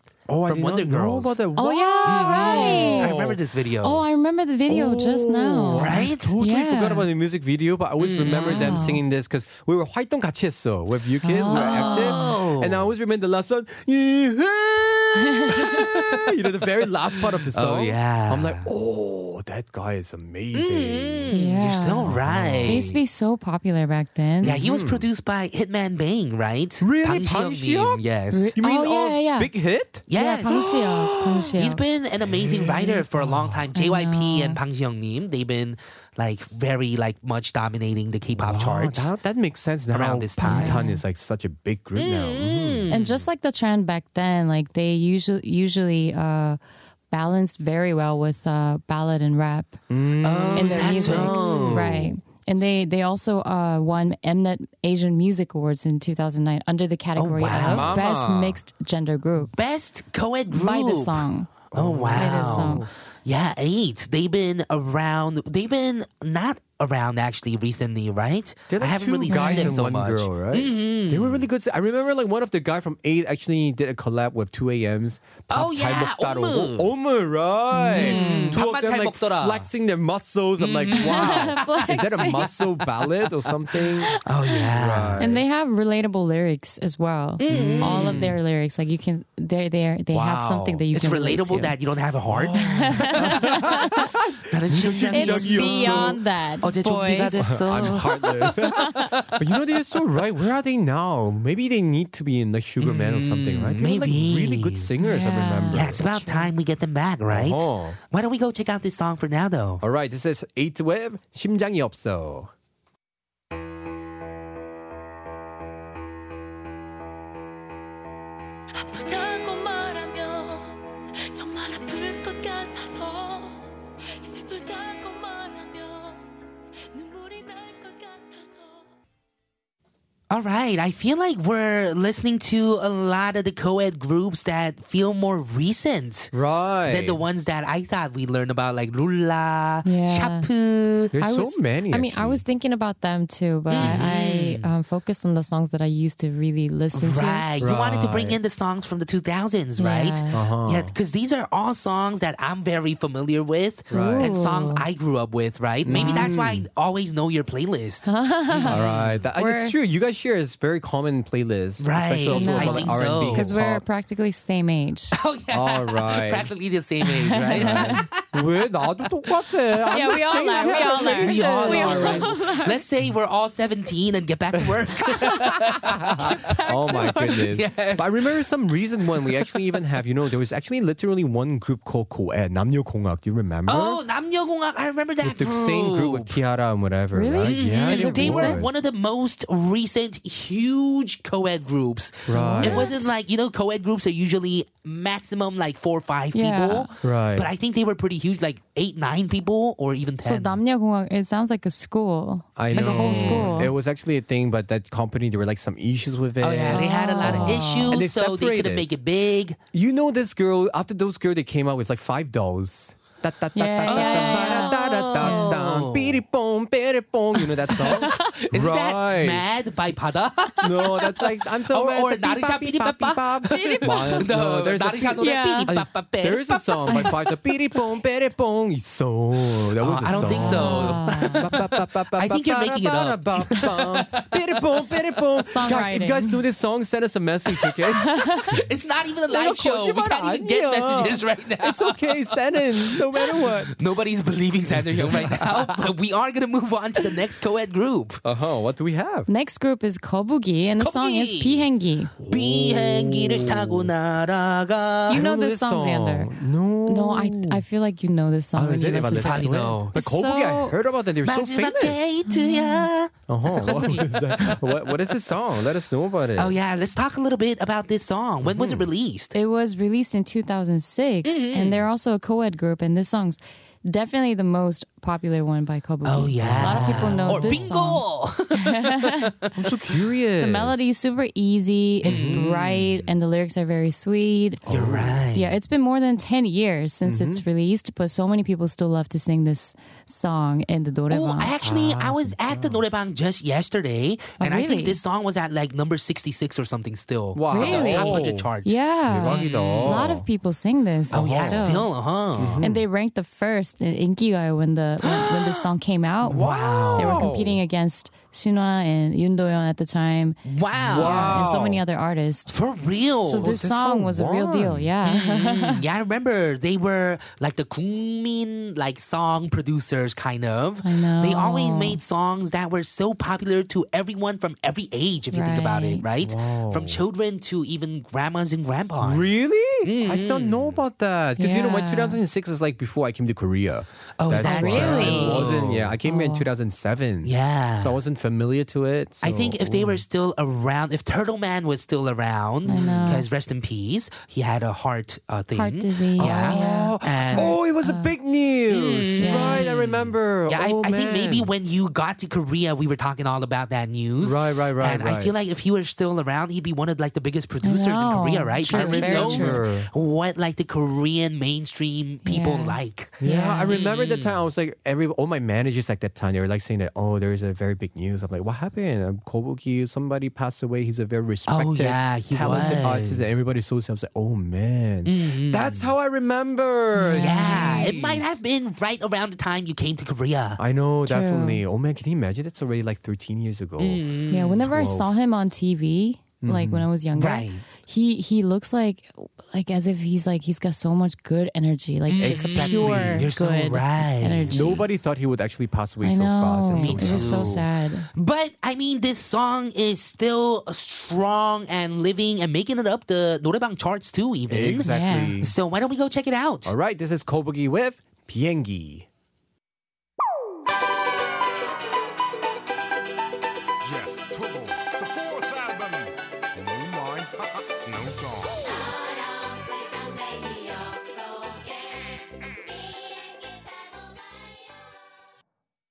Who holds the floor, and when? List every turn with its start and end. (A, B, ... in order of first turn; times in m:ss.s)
0:00.3-0:03.4 A
0:00.4-0:01.4 B
0:01.6-0:07.1 C
0:02.0-0:04.0 B
0:04.7-0:21.4 A
0:05.8-0:06.3 B
0:08.0-0:08.9 B
0:08.4-0:09.0 C
0:11.2-0:12.3 C
0:11.5-0:12.9 B
0:15.3-0:15.8 C
0:17.5-0:18.7 B
0:20.5-0:23.0 B
0:21.3-0:22.1 C
0:22.0-0:22.8 A
0:22.6-0:24.6 C
0:24.4-0:25.1 A
0:24.4-0:28.6 B
0:26.8-0:28.0 A
0:28.3-0:29.5 C
0:28.6-0:31.5 A
0:30.1-0:30.7 B
0:30.1-0:31.8 C
0:31.6-0:39.1 B
0:32.2-0:33.6 A
0:33.7-0:34.6 C
0:38.4-0:42.9 A
0:39.9-0:40.8 B
0:40.4-0:41.0 C
0:42.0-0:43.2 B
0:42.9-0:46.6 C
0:47.1-0:49.8 C
0:49.9-0:52.2 A
0:50.2-0:51.8 B
0:50.5-0:59.5 C
0:57.2-0:58.0 B
0:57.5-0:58.6 A
0:59.4-1:11.4 B
1:00.5-1:01.5 C
1:01.7-1:02.9 A
1:02.2-1:02.8 C
1:08.7-1:24.1 A
1:09.3-1:09.7 C
1:15.5-1:16.9 B
1:17.7-1:18.6 C
1:17.9-1:19.7 B
1:20.6-1:22.5 B
1:20.9-1:22.5 C
1:24.0-1:24.6 C
1:24.2-1:25.3 B
1:24.7-1:25.4 A
1:25.2-1:31.7 C
1:27.4-1:28.3 B
1:27.4-1:28.4 A
1:30.1-1:30.8 A
1:30.9-1:39.4 B
1:32.3-1:36.2 A
1:32.5-1:34.1 C
1:35.1-1:37.6 C
1:37.3-1:46.0 A
1:38.8-1:39.1 C
1:42.8-1:44.9 B
1:45.0-1:46.5 C
1:45.7-1:49.8 B
1:47.3-1:48.0 A
1:49.8-1:52.5 A
1:58.8-2:00.8 D
2:01.3-2:03.6 D
2:04.2-2:06.2 D
2:06.9-2:08.8 D
2:10.3-2:16.3 B
2:16.3-2:17.2 A
2:16.9-2:21.1 B
2:19.8-2:20.5 C
2:21.1-2:22.4 A
2:21.2-2:27.4 C
2:23.7-2:24.7 B
2:23.8-2:24.1 A
2:27.0-2:39.2 B
2:27.6-2:28.4 A
2:29.8-2:30.4 C
2:30.3-2:30.9 A
2:33.9-2:34.3 A
2:33.9-2:34.8 C
2:35.8-2:36.7 A
2:35.9-2:36.3 C
2:38.0-2:38.8 C
2:38.6-2:43.8 A
2:39.3-2:39.8 C
2:41.8-2:43.5 B
2:42.3-2:45.2 C
2:45.1-2:48.4 B
2:45.5-2:46.5 A
2:47.0-2:48.0 C
2:47.5-2:52.3 A
2:49.9-2:52.8 C
2:50.1-2:56.2 B
2:54.6-3:04.0 A
2:56.2-2:57.5 C
2:57.1-2:58.4 B
2:59.2-2:59.6 B
3:03.7-3:06.4 B
3:05.2-3:08.8 A
3:07.1-3:08.6 C
3:07.4-3:20.6 B
3:12.3-3:13.0 A
3:12.3-3:13.1 C
3:16.3-3:16.9 C
3:17.0-3:17.5 A
3:20.2-3:23.7 C
3:22.6-3:28.8 A
3:22.7-3:23.7 B
3:26.4-3:29.6 B
3:26.7-3:28.0 C
3:29.7-3:39.4 A
3:33.5-3:35.5 C
3:33.8-3:36.2 B
3:37.7-3:47.2 B
3:40.6-3:58.6 A
3:43.5-3:44.2 C
3:45.2-3:45.7 C
3:49.8-3:55.0 B
3:50.2-3:51.4 C
3:55.4-3:56.4 C
3:58.0-3:58.5 C
3:58.5-4:08.2 B
3:59.3-4:03.7 A
4:04.7-4:05.9 A
4:08.2-4:09.3 A
4:09.3-4:12.1 C
4:10.8-4:11.7 B
4:12.2-4:13.9 A
4:12.3-4:15.2 B
4:15.1-4:16.3 C
4:15.1-4:17.6 A
4:16.9-4:20.8 C
4:18.6-4:22.0 A
4:19.0-4:19.9 B
4:21.2-4:25.1 B
4:22.3-4:22.9 C
4:23.3-4:26.6 A
4:26.4-4:29.3 B
4:28.4-4:28.9 A
4:29.3-4:38.0 C
4:31.2-4:31.8 B
4:36.0-4:39.3 B
4:36.4-4:37.7 A
4:38.6-4:39.3 C
4:39.5-4:40.8 A
4:40.4-4:44.6 C
4:42.0-4:43.0 B
4:42.0-4:42.5 A
4:44.6-4:45.2 A
4:44.7-4:45.5 B
4:45.3-4:51.5 C
4:47.0-4:47.4 A
4:51.1-5:00.1 B
4:51.6-4:52.8 A
4:54.4-4:55.0 C
4:57.3-4:58.5 A
4:57.5-5:01.9 C
4:59.0-5:00.2 A
5:01.1-5:01.7 A
5:01.1-5:02.6 B
5:02.4-5:02.8 A
5:02.6-5:06.4 C
5:05.0-5:05.7 B
5:06.3-5:07.6 A
5:06.3-5:07.2 B
5:07.0-5:12.5 C
5:10.4-5:11.5 B
5:10.7-5:11.8 A
5:12.5-5:13.6 B
5:13.2-5:15.8 C
5:13.4-5:14.9 A
5:15.0-5:30.8 B
5:20.8-5:22.0 C
5:25.3-5:26.0 C
5:26.1-5:27.0 A
5:29.0-5:40.0 A
5:31.4-5:32.2 C
5:34.2-5:35.9 B
5:34.4-5:36.4 C
5:37.2-5:38.0 B
5:39.2-5:47.6 B
5:42.6-5:43.2 C
5:42.7-5:43.2 A
5:45.5-5:48.1 C
5:46.2-5:51.5 A
5:48.7-6:04.4 B
5:49.2-5:49.6 C
5:54.2-5:55.3 A
5:57.6-5:59.6 C
5:58.7-5:59.9 A
6:02.2-6:03.7 C
6:03.2-6:18.4 A
6:11.5-6:13.3 B
6:15.0-6:15.9 B
6:16.9-6:17.9 C
6:17.2-6:20.6 B
6:20.6-6:24.0 A
6:21.1-6:21.6 C
6:23.8-6:24.6 B
6:24.3-6:34.8 C
6:24.6-6:25.1 A
6:26.4-6:26.9 A
6:27.1-6:27.6 B
6:32.1-6:34.8 B
6:32.2-6:33.3 A
6:34.5-6:37.6 A
6:36.0-6:38.1 C
6:36.7-6:44.9 B
6:44.5-6:45.5 A
6:44.7-6:45.4 C
6:45.4-6:46.7 B
6:46.6-6:49.1 A
6:53.8-6:58.6 E
6:58.6-7:04.6 D